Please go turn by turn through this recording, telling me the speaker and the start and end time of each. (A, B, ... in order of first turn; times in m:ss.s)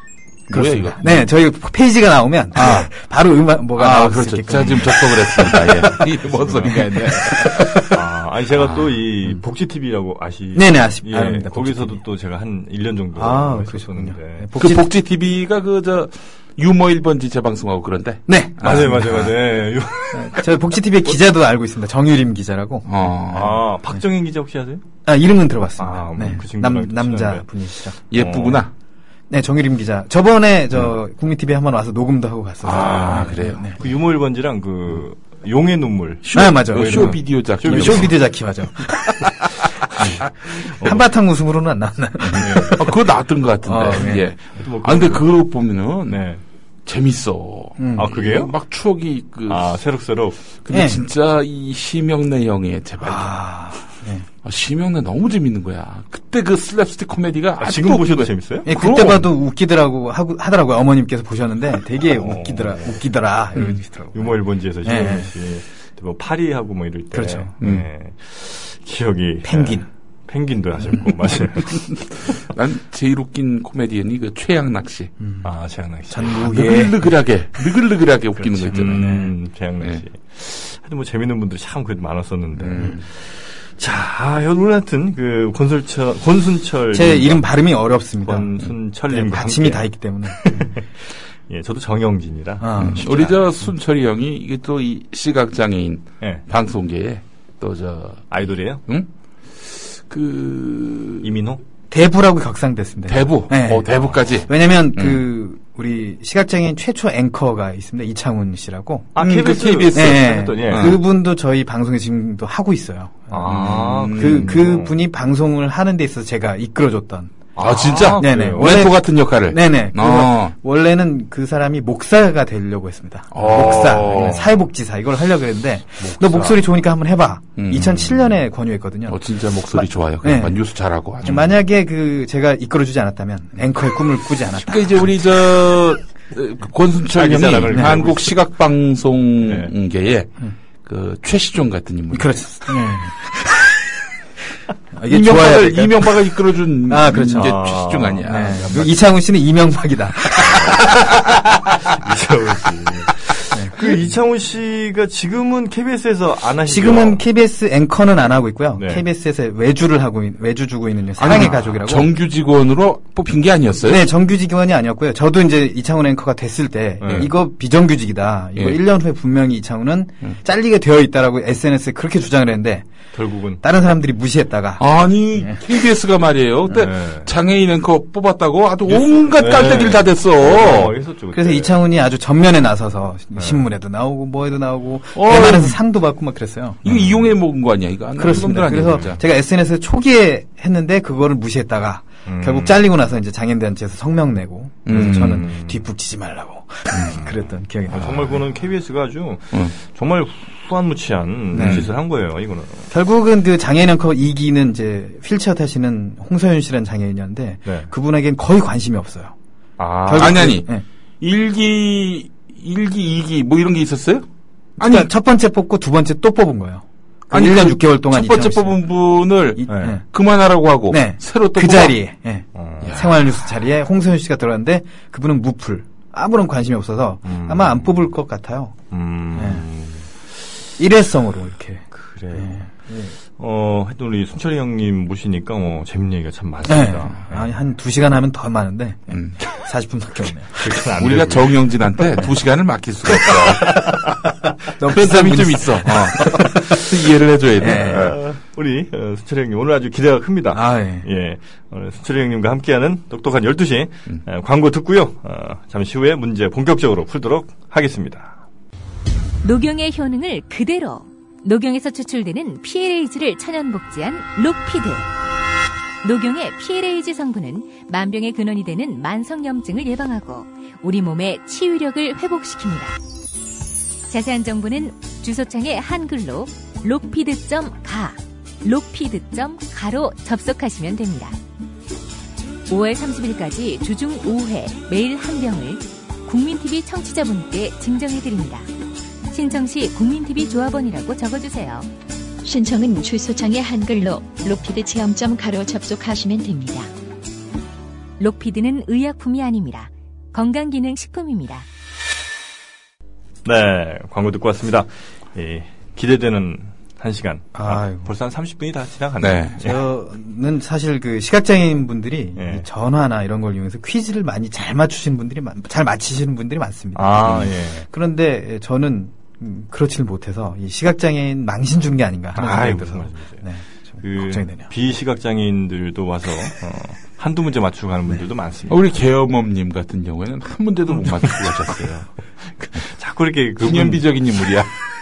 0:00.5-0:07.9 A
0:00.5-0:01.3 B
0:02.5-0:02.9 B
0:03.7-0:08.0 B
0:06.3-0:06.7 C
0:07.9-0:14.5 C
0:08.6-0:09.0 B
0:10.5-0:12.0 A
0:13.2-0:14.9 A
0:14.6-0:19.3 B
0:18.3-0:19.3 A
0:18.6-0:21.2 C
0:20.1-0:23.6 A
0:22.8-0:23.6 B
0:23.3-0:24.8 C
0:25.0-0:28.0 A
0:25.8-0:27.5 C
0:28.1-0:28.7 B
0:28.1-0:28.6 C
0:29.3-0:33.8 A
0:32.6-0:33.7 B
0:32.7-0:38.1 C
0:36.2-0:38.2 B
0:36.3-0:39.3 A
0:40.0-0:41.0 C
0:40.0-0:43.0 A
0:42.2-0:46.2 B
0:42.4-0:42.8 C
0:43.6-0:44.3 A
0:44.4-0:45.3 C
0:46.1-0:46.4 C
0:46.8-0:49.8 B
0:47.8-0:48.1 A
0:47.9-0:48.5 C
0:49.5-0:50.4 C
0:50.6-0:53.4 B
0:50.7-0:51.0 A
0:53.0-0:54.3 A
0:54.4-0:59.3 B
0:57.6-0:58.7 C
0:58.6-1:05.3 A
1:02.1-1:03.0 C
1:04.1-1:11.8 C
1:07.1-1:07.5 A
1:07.6-1:07.9 B
1:09.4-1:09.9 A
1:11.7-1:15.1 B
1:15.2-1:15.5 A
1:15.4-1:16.4 C
1:16.1-1:17.0 A
1:16.3-1:20.0 B
1:18.4-1:27.5 C
1:18.8-1:19.3 A
1:22.6-1:23.0 B
1:26.9-1:28.5 A
1:28.2-1:33.5 C
1:29.1-1:30.8 A
1:32.6-1:33.1 A
1:32.8-1:41.3 B
1:38.3-1:38.8 C
1:41.2-1:41.6 C
1:41.9-1:43.9 A
1:43.1-1:45.2 B
1:44.4-1:49.1 A
1:49.1-1:51.0 C
1:49.2-1:51.0 B
1:49.9-1:57.4 A
1:53.3-1:54.9 C
1:53.4-1:54.8 B
1:57.5-1:58.8 C
1:57.6-2:00.5 B
1:58.2-2:10.6 A
2:03.3-2:04.6 B
2:03.4-2:04.5 C
2:06.0-2:06.6 C
2:06.2-2:06.5 B
2:07.6-2:08.4 B
2:09.1-2:11.6 B
2:11.2-2:15.1 A
2:14.6-2:22.7 B
2:17.1-2:18.4 C
2:17.7-2:18.0 A
2:19.4-2:19.7 C
2:22.1-2:23.6 A
2:24.9-2:26.2 A
2:25.0-2:28.8 B
2:26.9-2:27.6 A
2:27.3-2:29.0 C
2:28.3-2:31.0 A
2:30.4-2:37.2 C
2:33.5-2:34.0 A
2:36.6-2:42.1 A
2:38.8-2:39.0 C
2:41.2-2:44.1 B
2:43.8-2:52.9 A
2:47.0-2:47.3 C
2:47.1-2:47.3 B
2:48.6-2:48.8 B
2:53.1-2:53.6 C
2:53.6-2:54.8 A
2:54.8-3:01.0 B
2:56.7-2:57.3 C
2:58.9-3:01.8 C
3:01.3-3:06.8 A
3:03.4-3:03.6 C
3:05.1-3:05.8 B
3:06.8-3:09.2 B
3:06.9-3:07.1 C
3:08.2-3:18.4 A
3:08.8-3:09.1 C
3:12.2-3:12.8 C
3:14.8-3:15.5 B
3:15.0-3:15.8 C
3:17.0-3:22.9 C
3:21.5-3:21.9 A
3:21.5-3:21.9 B
3:22.9-3:29.3 A
3:29.8-3:30.5 C
3:30.0-3:30.8 A
3:30.1-3:34.3 B
3:34.8-3:35.1 B
3:34.8-3:38.8 A
3:37.3-3:42.0 B
3:39.6-3:40.0 A
3:39.7-3:40.0 C
3:40.9-3:48.8 A
3:42.5-3:42.9 C
3:42.8-3:43.6 B
3:47.2-3:48.0 C
3:48.9-3:50.1 C
3:49.3-3:49.6 A
3:50.8-3:53.1 A
3:51.9-3:52.7 C
3:53.2-3:57.5 C
3:56.6-4:00.6 A
3:59.1-3:59.4 B
4:00.6-4:01.6 C
4:01.0-4:03.9 B
4:04.8-4:06.8 A
4:04.8-4:08.2 B
4:07.6-4:08.2 A
4:07.7-4:18.4 C
4:10.5-4:11.1 A
4:19.4-4:25.1 D
4:26.0-4:33.0 D
4:34.1-4:41.4 D
4:42.7-4:48.7 D
4:49.3-4:51.9 D
4:52.4-4:56.9 E
4:58.2-5:01.6 D
5:03.4-5:09.8 C
5:07.5-5:08.1 A
5:09.2-5:09.6 B
5:09.6-5:24.7 A
5:12.4-5:12.6 C
5:16.9-5:17.9 C
5:22.3-5:23.4 C
5:24.0-5:28.8 C
5:28.7-5:32.1 B
5:30.9-5:34.1 C
5:33.6-5:34.7 B